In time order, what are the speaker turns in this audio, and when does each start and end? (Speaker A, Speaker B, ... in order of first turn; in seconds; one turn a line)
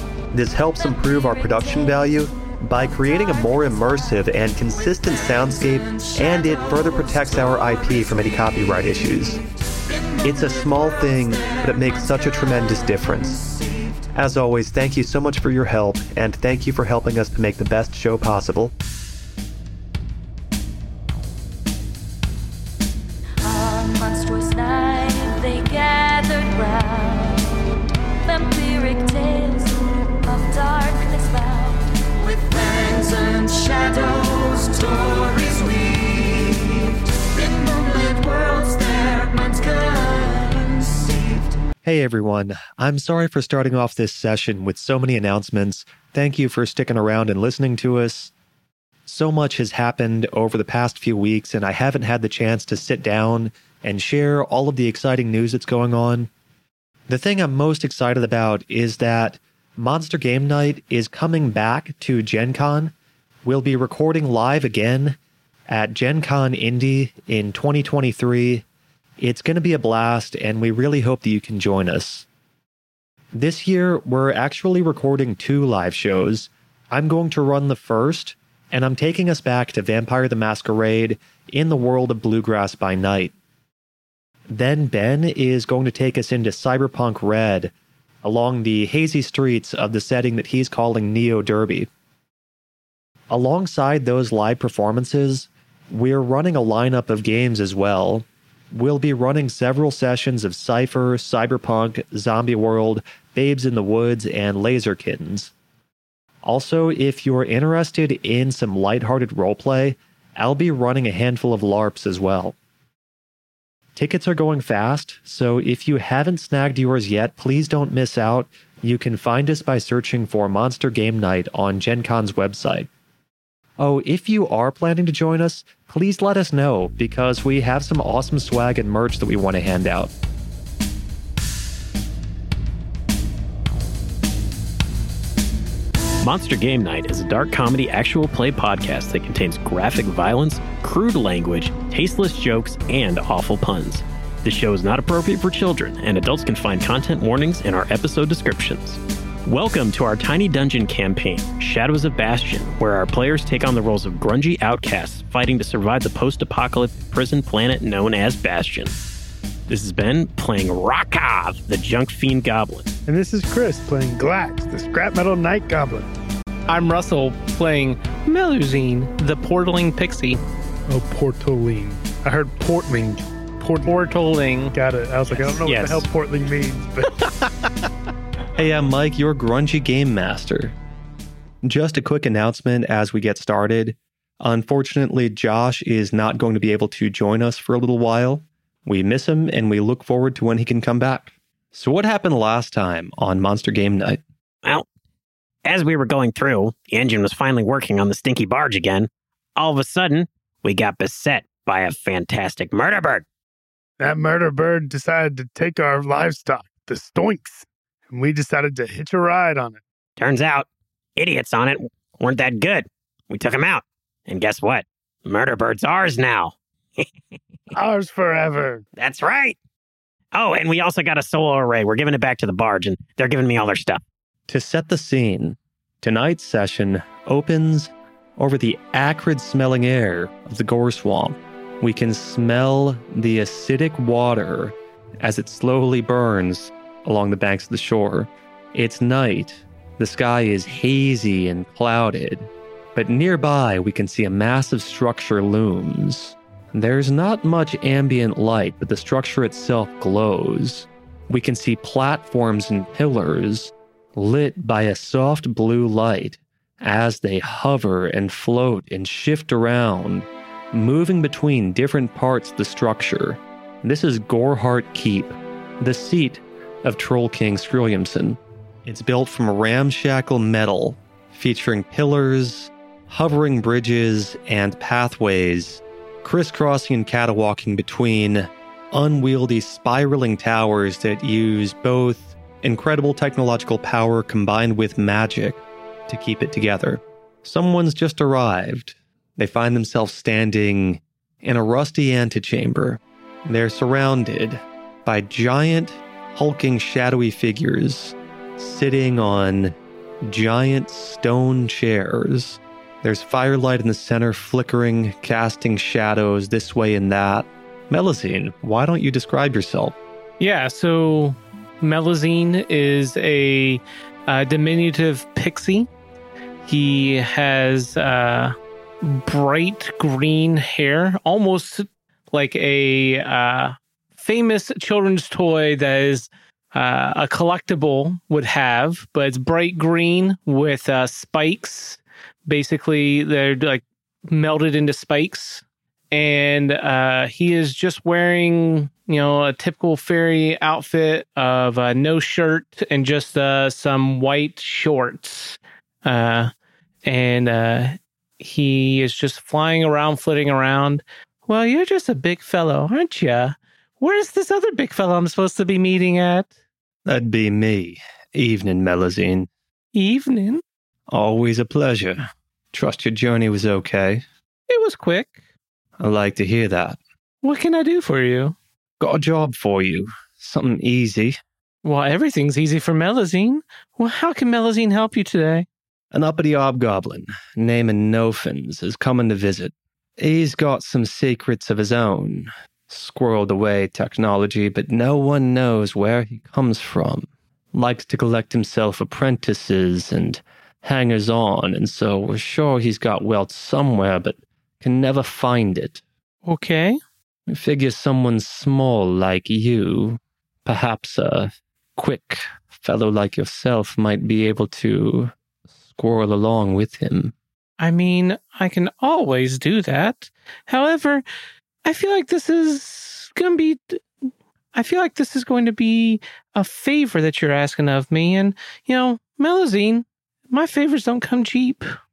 Speaker A: 0.3-9.4
Speaker A: 10.2-13.4
Speaker A: 14.1-18.7
Speaker B: 23.4-41.6
Speaker A: 41.8-48.3
Speaker A: 49.0-56.3
Speaker A: 57.1-62.9
Speaker A: 63.4-65.2
Speaker A: 65.7-68.6
Speaker A: 69.2-72.2
Speaker A: 73.3-83.3
Speaker A: 84.5-87.7
Speaker A: 88.2-91.9
Speaker A: 93.3-105.5
Speaker A: 106.4-112.5
Speaker A: 114.0-122.9
Speaker A: 123.8-130.1
Speaker C: 136.2-158.9
Speaker C: 159.7-162.9
Speaker D: 163.1-166.1
Speaker E: 166.7-170.4
Speaker D: 170.9-173.9
Speaker E: 173.8-174.7
Speaker D: 174.7-177.3
Speaker C: 175.7-176.0
Speaker E: 177.2-177.7
Speaker A: 178.6-180.7
Speaker A: 181.6-194.2
Speaker C: 195.6-203.2
Speaker D: 204.0-209.8
Speaker C: 210.2-217.1
Speaker D: 217.7-218.8
Speaker C: 219.0-219.6
Speaker C: 220.3-224.0
Speaker A: 224.5-309.9
Speaker E: 310.4-315.9
Speaker E: 316.6-346.5
Speaker E: 347.0-356.5
Speaker A: 357.1-359.5
Speaker E: 359.9-360.6
Speaker A: 361.1-364.2
Speaker E: 364.7-365.3
Speaker A: 366.0-367.0
Speaker E: 367.4-368.5
Speaker A: 369.0-371.4
Speaker E: 371.8-375.6
Speaker A: 376.1-396.0
Speaker E: 396.4-397.0
Speaker A: 397.5-405.3
Speaker A: 405.9-407.3
Speaker E: 407.8-411.2
Speaker E: 411.8-414.0
Speaker E: 414.7-421.8